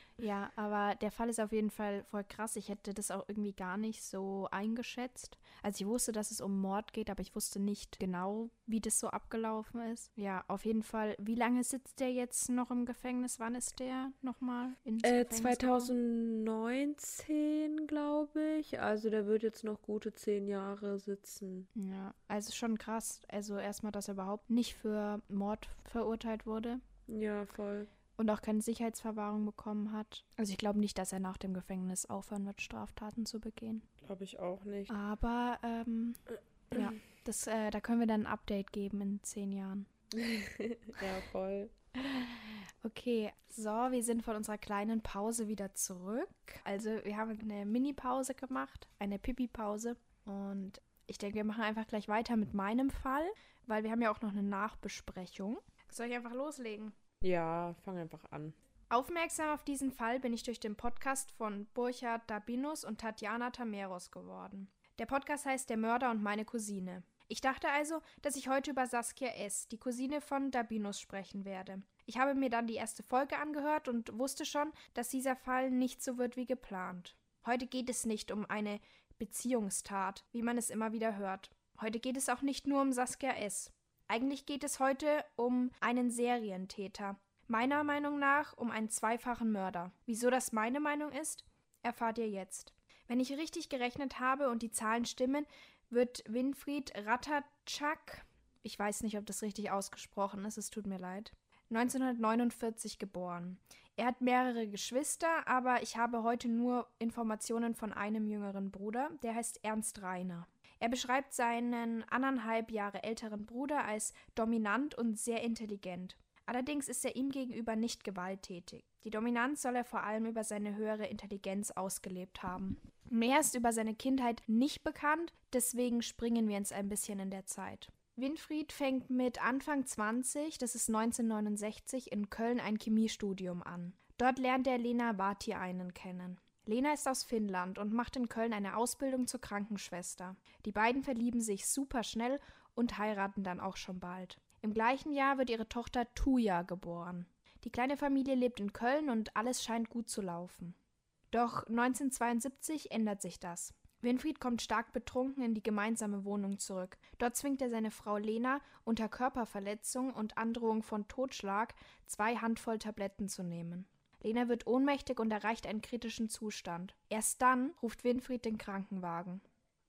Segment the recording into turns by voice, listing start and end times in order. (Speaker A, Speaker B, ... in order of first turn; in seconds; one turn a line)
Speaker A: 0.2-15.9
Speaker B: 15.0-21.7
Speaker A: 21.7-26.8
Speaker B: 27.1-27.9
Speaker A: 28.1-33.9
Speaker B: 34.0-34.9
Speaker A: 34.9-39.9
Speaker B: 36.7-37.0
Speaker B: 40.1-41.7
Speaker A: 42.0-57.0
Speaker B: 57.2-58.5
Speaker A: 58.9-150.8
Speaker A: 151.3-169.4